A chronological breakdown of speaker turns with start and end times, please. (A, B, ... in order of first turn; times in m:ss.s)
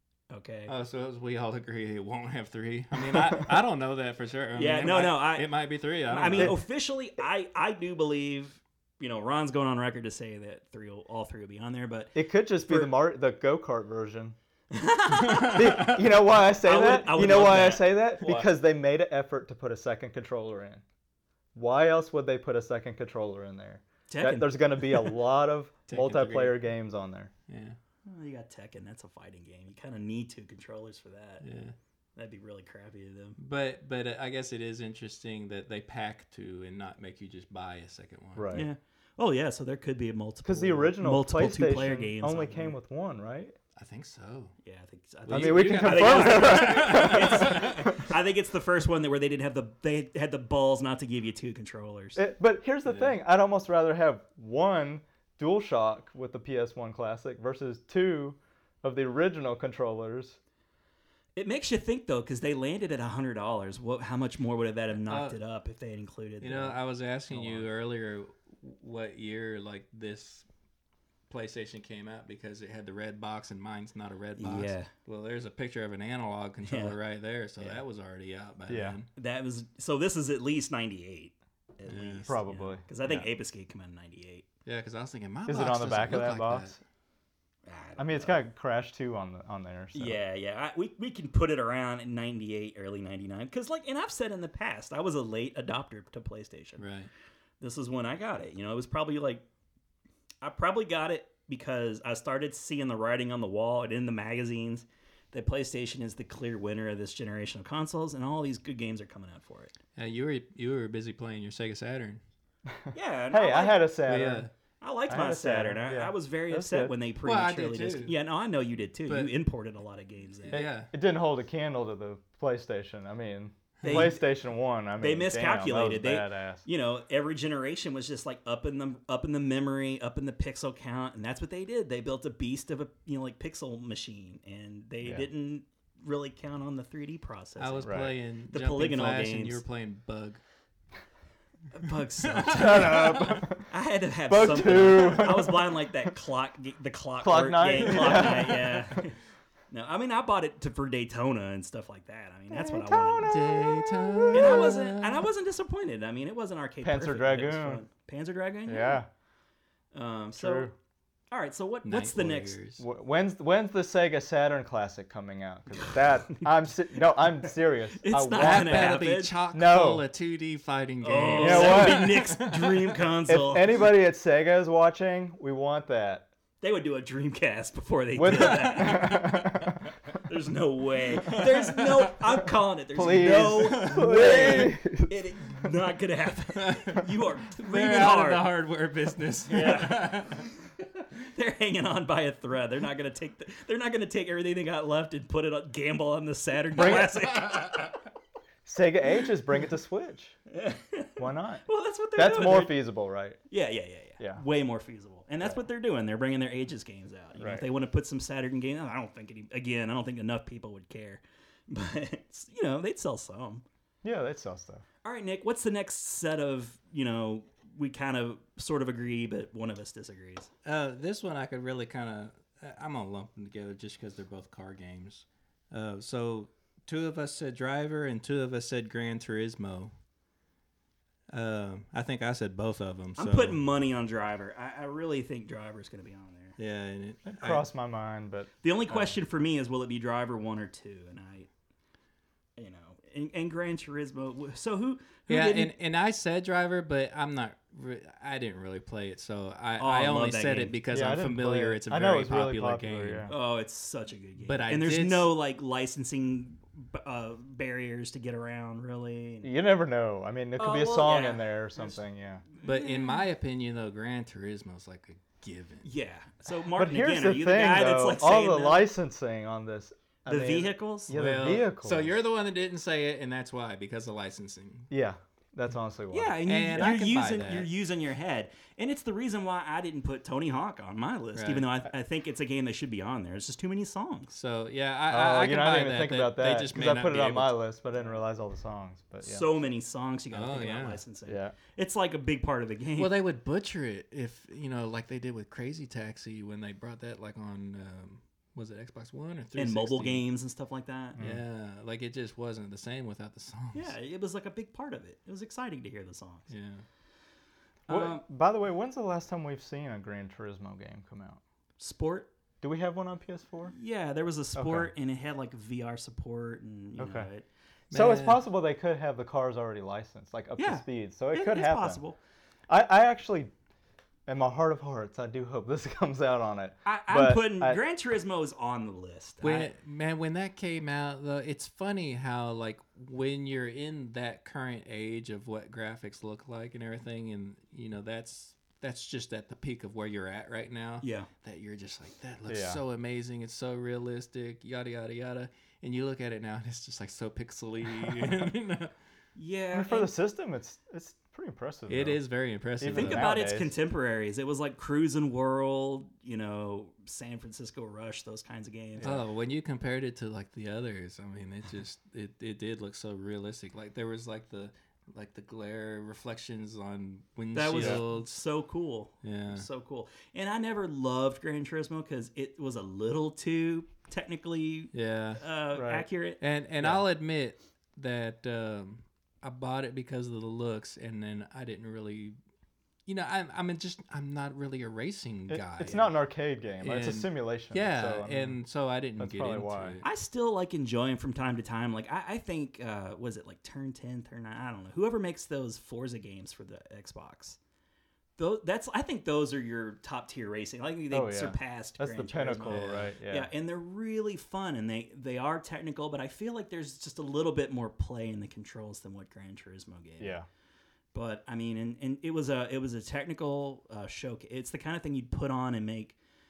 0:00.3-0:00.7 A
0:00.7-0:06.6 B
0:04.5-0:05.5 A
0:06.1-0:12.9 A
0:12.1-0:14.4 C
0:14.7-0:16.0 A
0:15.4-0:20.8 C
0:16.6-0:18.5 A
0:21.5-0:27.3 C
0:24.1-0:24.6 A
0:25.9-0:26.6 B
0:27.5-0:27.8 B
0:28.0-0:31.4 A
0:31.4-0:31.7 B
0:32.2-0:33.4 A
0:33.4-0:38.5 B
0:38.3-0:38.7 C
0:38.5-0:42.8 A
0:40.4-0:43.5 C
0:43.8-0:44.5 B
0:44.6-0:52.2 A
0:45.3-0:47.9 B
0:45.3-0:48.0 C
0:52.2-1:00.4 C
1:01.4-1:06.8 A
1:05.0-1:05.4 B
1:06.4-1:10.5 B
1:11.3-1:19.1 B
1:14.4-1:14.9 A
1:16.6-1:17.0 A
1:18.7-1:19.0 C
1:19.2-1:24.4 A
1:21.9-1:22.4 B
1:22.3-1:23.2 C
1:24.6-1:26.8 B
1:25.4-1:26.8 C
1:27.6-1:28.4 A
1:28.0-1:30.2 C
1:29.9-1:36.8 A
1:36.8-1:37.1 B
1:37.6-1:39.4 A
1:40.4-1:49.7 A
1:50.0-1:52.2 B
1:52.7-1:54.5 C
1:52.9-1:53.9 A
1:54.0-1:54.5 B
1:54.8-2:00.6 A
1:55.1-1:56.9 C
1:57.2-1:58.2 B
1:59.1-1:59.4 B
2:00.5-2:00.9 B
2:00.5-2:06.6 C
2:03.8-2:04.2 B
2:03.8-2:04.3 A
2:05.0-2:18.0 A
2:17.6-2:20.4 B
2:17.8-2:18.1 C
2:18.5-2:19.6 A
2:21.7-2:29.2 A
2:22.3-2:23.3 B
2:22.5-2:23.7 C
2:24.3-2:25.9 C
2:27.2-2:29.0 C
2:29.7-2:33.3 A
2:32.5-2:34.7 C
2:33.2-2:35.2 B
2:34.3-2:39.0 A
2:36.8-2:37.8 C
2:38.7-2:39.1 C
2:39.9-2:40.7 A
2:40.4-2:40.7 C
2:41.3-2:42.6 A
2:41.8-2:42.8 B
2:42.8-2:50.0 C
2:47.9-2:49.4 A
2:48.4-2:52.9 B
2:51.0-2:53.8 A
2:51.3-2:52.2 C
2:53.3-2:56.3 C
2:56.6-2:59.4 A
2:58.1-2:59.8 C
2:58.5-2:59.5 B
3:00.2-3:08.5 A
3:01.2-3:02.1 B
3:02.9-3:05.7 C
3:03.4-3:04.7 B
3:06.6-3:07.0 B
3:07.6-3:10.4 B
3:09.4-3:17.9 A
3:16.8-3:17.3 C
3:18.6-3:20.4 C
3:20.5-3:22.8 A
3:21.2-3:23.4 C
3:23.5-3:33.6 A
3:24.2-3:24.4 C
3:27.4-3:27.6 C
3:34.0-3:34.8 C
3:35.0-3:40.5 A
3:40.6-3:49.9 B
3:51.3-3:53.6 B
3:53.2-3:56.6 A
3:56.6-3:57.6 B
3:57.2-3:59.0 C
3:58.6-4:01.5 A
4:02.6-4:05.7 A
4:05.3-4:13.3 B
4:09.8-4:10.7 A
4:10.9-4:13.3 C
4:13.3-4:19.5 A
4:14.4-4:15.3 B
4:19.4-4:22.4 C
4:20.6-4:22.0 A
4:22.5-4:23.2 A
4:22.6-4:25.9 B
4:25.8-4:28.9 A
4:26.7-4:32.1 C
4:30.2-4:31.2 A
4:31.1-4:34.9 B
4:34.9-4:36.4 C
4:36.1-4:44.3 A
4:36.4-4:37.7 B
4:41.3-4:41.7 B
4:44.3-4:47.6 B
4:45.1-4:49.5 C
4:49.2-4:53.1 A
4:50.3-4:51.0 B
4:51.2-4:51.6 C
4:53.0-5:00.2 B
4:59.6-5:01.2 A
5:01.2-5:01.4 C
5:01.2-5:03.9 B
5:03.7-5:06.4 A
5:06.5-5:06.8 B
5:07.9-5:08.2 A
5:07.9-5:11.4 C
5:11.8-5:12.3 A
5:12.6-5:13.7 C
5:13.7-5:17.4 A
5:14.6-5:14.9 C
5:17.0-5:17.3 C
5:17.9-5:18.4 B
5:17.9-5:22.0 C
5:20.6-5:22.2 A
5:22.7-5:23.5 C
5:24.3-5:27.8 C
5:26.8-5:29.7 A
5:29.4-5:48.9 B
5:41.0-5:41.3 A
5:42.5-5:42.8 C
5:49.3-5:50.1 A
5:49.7-5:52.2 C
5:51.9-5:53.3 B
5:52.8-5:53.7 C
5:52.9-5:59.1 A
5:59.0-6:08.4 B
6:07.5-6:16.4 A
6:07.8-6:08.0 C
6:09.2-6:09.7 B
6:14.9-6:15.4 B
6:15.7-6:16.1 C
6:16.4-6:22.4 B
6:23.0-6:26.1 B
6:25.5-6:28.6 C
6:26.8-6:30.0 B
6:29.2-6:30.0 C
6:30.0-6:37.6 A
6:38.4-6:50.4 A
6:41.1-6:43.5 C
6:42.7-6:43.1 B
6:50.2-6:50.4 C
6:51.1-6:56.2 A